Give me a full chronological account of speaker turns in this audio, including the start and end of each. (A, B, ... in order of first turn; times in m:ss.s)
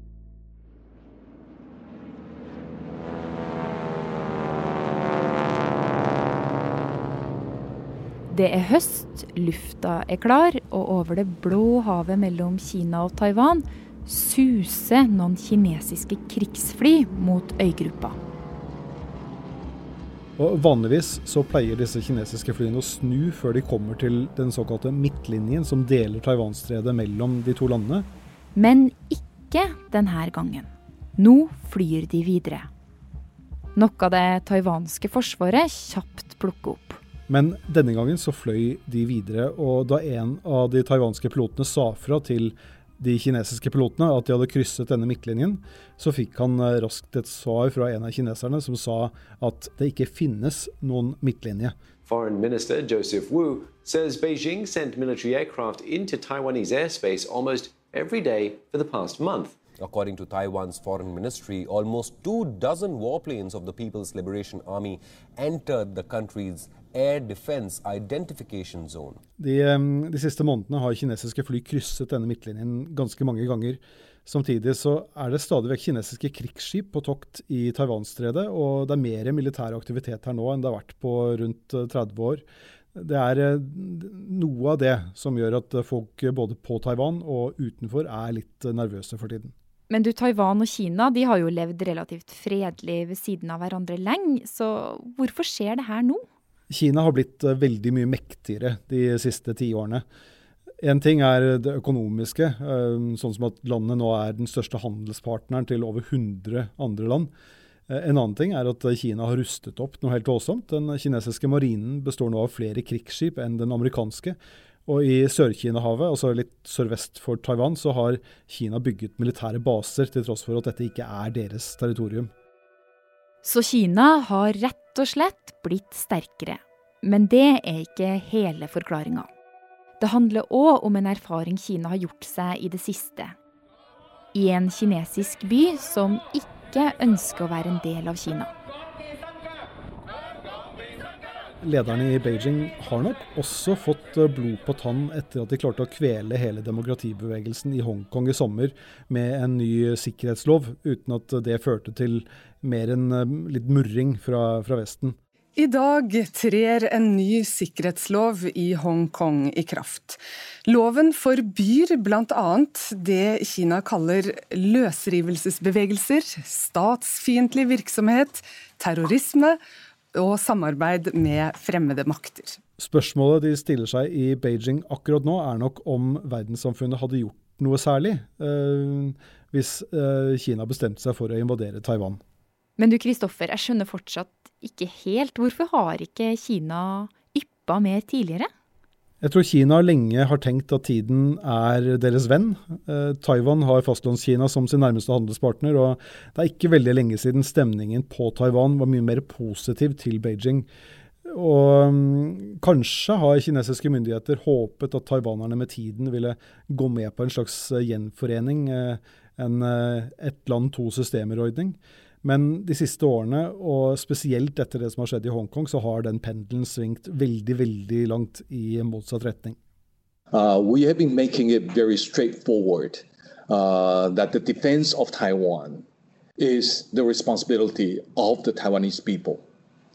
0:08.3-0:18.2 A
0:20.4-0:28.1 B
0:28.5-0:32.7 A
0:33.8-0:37.0 A
0:37.3-0:51.7 B
0:52.0-0:59.6 C
0:52.3-0:53.9 D
0:55.5-0:55.9 D
0:56.7-0:57.4 D
0:58.6-1:09.2 D
1:09.4-1:22.4 B
1:22.9-1:29.5 B
1:29.9-1:36.2 A
1:36.7-1:40.0 B
1:40.8-1:47.3 B
1:47.9-2:02.3 B
2:03.4-2:09.3 A
2:10.0-2:13.3 A
2:14.3-2:18.5 A
2:21.6-2:35.2 B
2:35.6-2:49.6 E
2:50.1-2:52.6 E
2:52.8-3:02.2 B
3:02.8-3:08.5 A
3:09.2-3:20.7 B
3:21.2-3:39.6 B
3:40.3-3:45.8 F
3:46.4-3:49.4 F